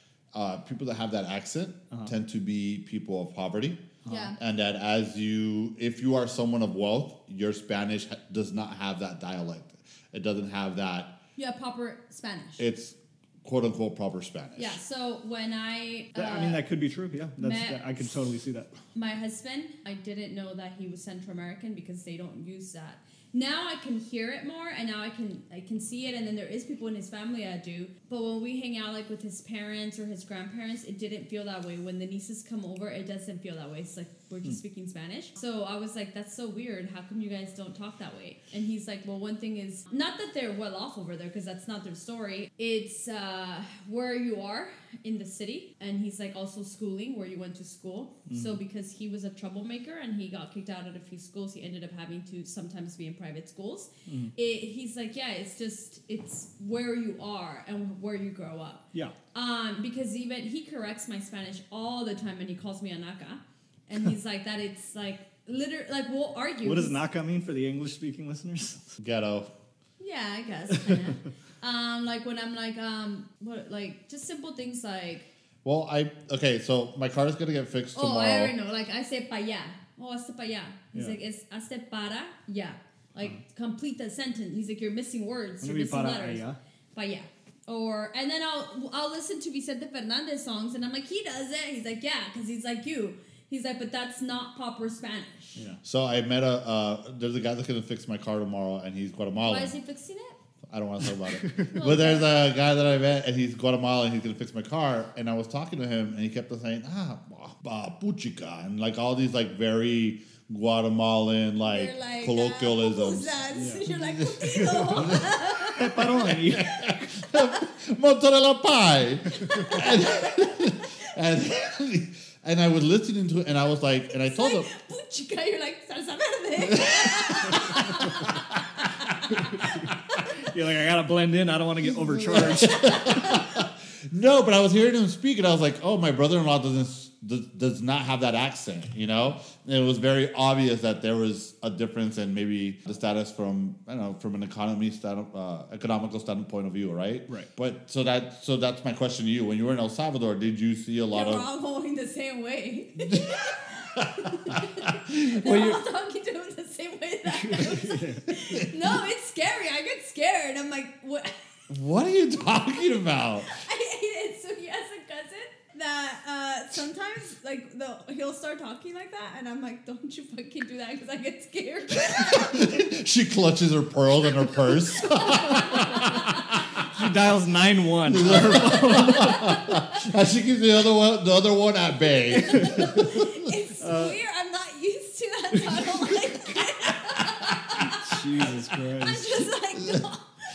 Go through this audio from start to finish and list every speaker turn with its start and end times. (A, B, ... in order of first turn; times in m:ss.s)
0:00.3-0:03.8 A
0:04.0-0:04.3 B
0:04.1-0:04.4 C
0:04.4-0:11.1 A
0:11.4-0:12.6 C
0:12.6-0:14.8 A
0:14.6-0:16.6 C
0:16.2-0:18.7 B
0:17.4-0:17.8 C
0:19.0-1:07.0 C
0:48.3-0:48.6 B
0:54.1-0:54.3 B
1:06.6-1:09.0 B
1:09.0-1:09.5 A
1:10.0-1:15.3 C
1:10.8-1:11.1 B
1:15.6-1:18.5 A
1:18.0-1:35.5 C
1:25.6-1:26.6 B
1:35.8-1:39.7 A
1:39.4-1:40.4 C
1:40.7-2:04.7 A
1:41.7-1:42.4 C
1:51.6-1:56.2 C
1:53.6-1:53.9 B
1:55.8-1:57.0 B
1:57.3-1:57.6 C
1:59.4-2:00.6 C
2:04.2-2:10.2 C
2:06.7-2:08.6 A
2:09.6-2:13.0 B
2:12.1-2:31.5 A
2:12.3-2:13.7 C
2:31.1-2:41.4 C
2:33.0-2:35.7 A
2:35.5-2:35.8 B
2:37.3-2:38.3 B
2:41.7-2:43.6 A
2:43.4-2:52.7 C
2:52.1-2:56.9 A
2:54.6-2:56.6 C
2:56.8-2:59.6 B
2:58.1-3:03.4 A
2:58.3-3:00.0 C
3:02.3-3:10.3 C
3:03.8-3:04.2 B
3:07.7-3:09.5 B